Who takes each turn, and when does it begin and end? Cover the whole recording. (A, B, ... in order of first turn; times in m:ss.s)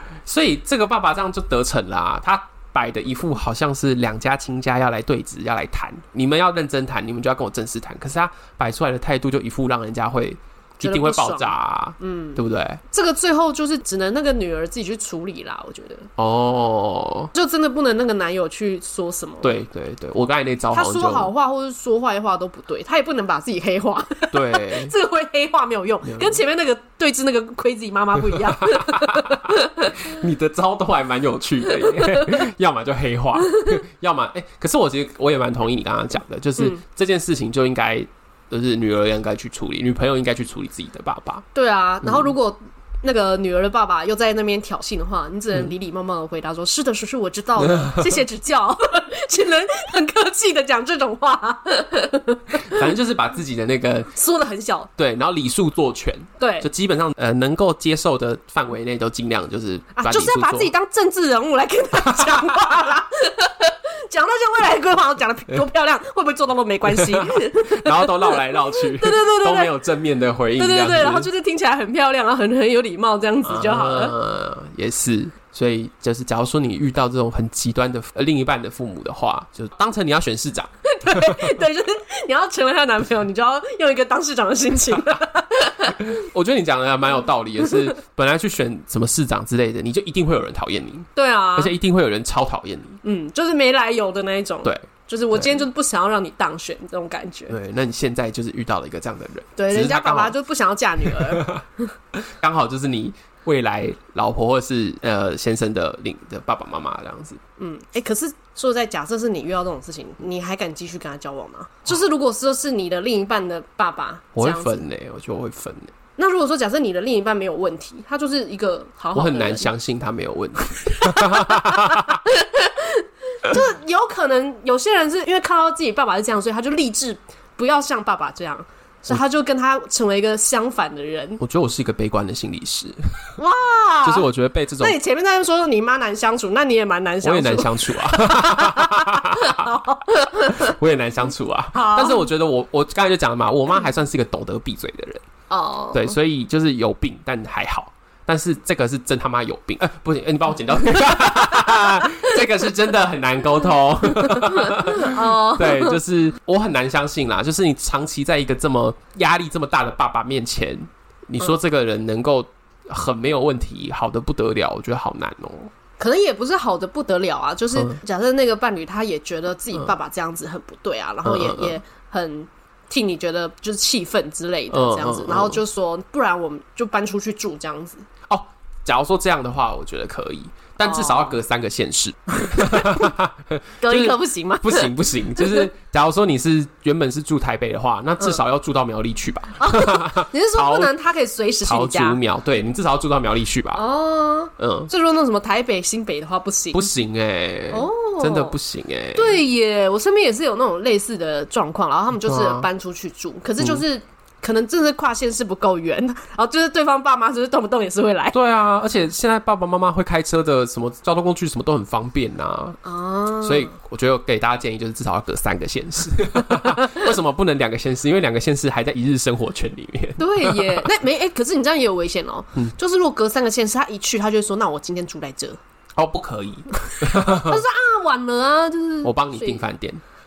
0:00.2-0:12.8 A
0:10.8-0:16.1 B
0:16.2-0:17.3 A
0:17.3-0:19.6 B
0:19.4-0:21.3 A
0:20.7-0:30.0 B
0:24.3-0:24.9 A
0:26.0-0:26.4 A
0:28.3-0:41.4 A
0:41.5-0:52.8 B
0:47.6-0:48.2 A
0:52.7-0:54.1 A
0:54.1-0:54.9 B
0:55.0-1:00.7 A
0:56.4-0:56.7 B
1:00.0-1:09.7 B
1:02.0-1:02.7 A
1:06.9-1:11.3 A
1:10.6-1:14.1 B
1:13.4-1:21.6 A
1:20.8-1:26.1 B
1:25.9-1:33.0 A
1:31.2-1:31.8 B
1:33.0-1:37.5 B
1:34.6-1:35.6 A
1:37.5-1:40.3 A
1:39.6-1:41.9 B
1:41.0-1:41.6 A
1:42.2-1:47.4 A
1:47.6-1:54.8 B
1:54.4-1:55.9 A
1:56.2-1:59.7 B
1:59.1-2:02.2 A
2:00.9-2:11.4 B
2:11.4-2:13.3 A
2:13.4-2:14.2 B
2:14.0-2:15.0 A
2:14.8-2:20.7 B
2:17.2-2:19.7 A
2:20.5-2:25.2 A
2:21.7-2:22.2 B
2:25.5-2:26.1 B
2:25.9-2:45.7 A
2:31.3-2:32.4 B
2:34.2-2:36.0 B
2:46.0-2:58.1 B
2:47.7-2:48.0 A
2:51.2-2:51.8 A
2:54.7-2:55.6 A
2:58.3-3:10.9 A
3:00.8-3:01.4 B
3:02.4-3:03.1 B
3:03.8-3:05.7 B
3:09.6-3:12.2 B
3:11.6-3:13.8 A
3:13.7-3:16.9 B
3:14.6-3:14.9 A
3:16.7-3:19.4 A
3:17.7-3:18.6 B
3:19.1-3:28.4 B
3:22.2-3:22.7 A
3:28.3-3:32.8 A
3:32.8-3:33.7 B
3:33.4-3:40.9 A
3:36.6-3:37.0 B
3:40.2-3:45.6 B
3:46.0-3:47.6 A
3:46.9-3:49.6 B
3:49.0-3:50.0 A